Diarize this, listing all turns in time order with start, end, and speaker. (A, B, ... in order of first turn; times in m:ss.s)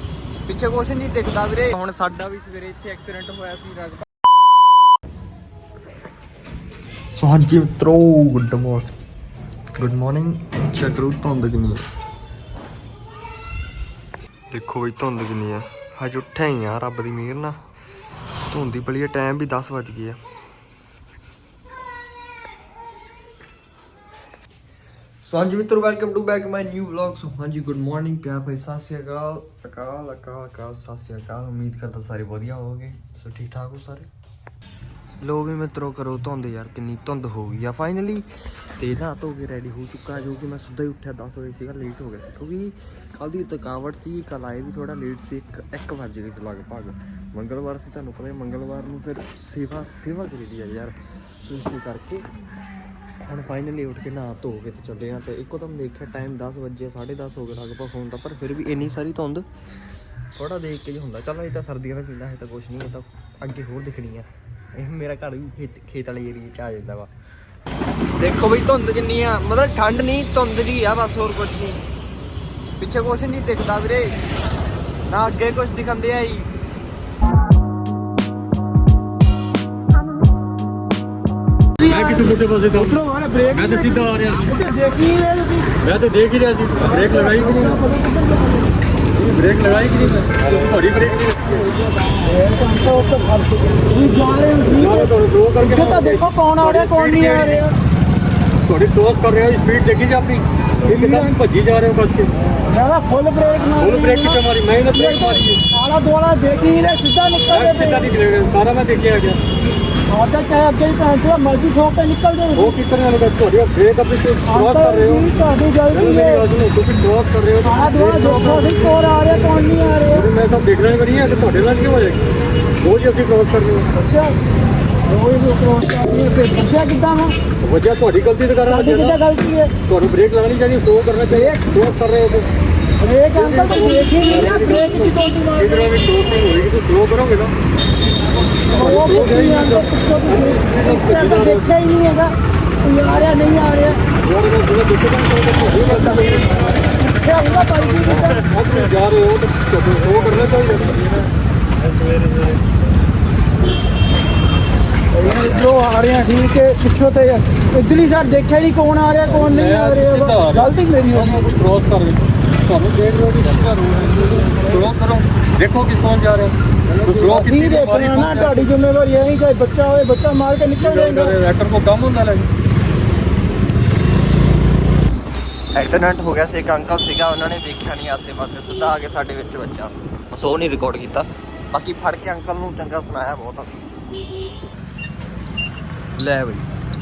0:01.0-0:03.6 A
0:07.2-0:08.9 A
0:09.7-0:11.8 A
0:14.5-0:17.6 A
0:18.5-0:20.2 A
0:25.2-0:34.1 A
0:35.2-0:52.2 A
0:53.2-0:59.5 A
1:00.3-1:07.1 A
1:08.2-1:11.8 A
1:12.8-1:14.1 A
1:15.1-1:16.5 A
1:21.8-1:24.7 B
1:24.6-1:25.7 C
1:25.8-1:27.8 B
1:27.0-1:28.5 C
1:29.2-1:31.7 B
1:32.1-1:35.0 C
1:34.7-1:37.8 B
1:35.6-1:37.7 C
1:38.6-1:42.3 B
1:40.9-1:41.4 C
1:42.6-1:48.1 C
1:43.6-1:45.6 B
1:47.5-1:49.4 B
1:50.1-1:52.7 C
1:52.6-1:55.3 B
1:54.5-1:56.5 C
1:55.9-1:59.5 B
1:57.6-2:00.3 C
2:00.1-2:02.3 B
2:02.8-2:03.9 B
2:04.0-2:04.4 C
2:05.0-2:07.4 C
2:07.6-2:09.2 B
2:08.7-2:09.8 C
2:09.8-2:12.5 B
2:13.0-2:15.9 C
2:13.3-2:17.5 B
2:18.7-2:21.9 B
2:18.7-2:24.1 C
2:24.2-2:26.8 B
2:25.9-2:26.2 C
2:26.9-2:28.4 C
2:28.0-2:31.3 B
2:35.1-2:41.4 C
2:39.2-2:48.7 B
2:47.0-2:47.4 A
2:47.4-2:51.4 C
2:50.8-2:52.5 B
2:55.8-3:03.9 A
3:06.2-3:06.7 A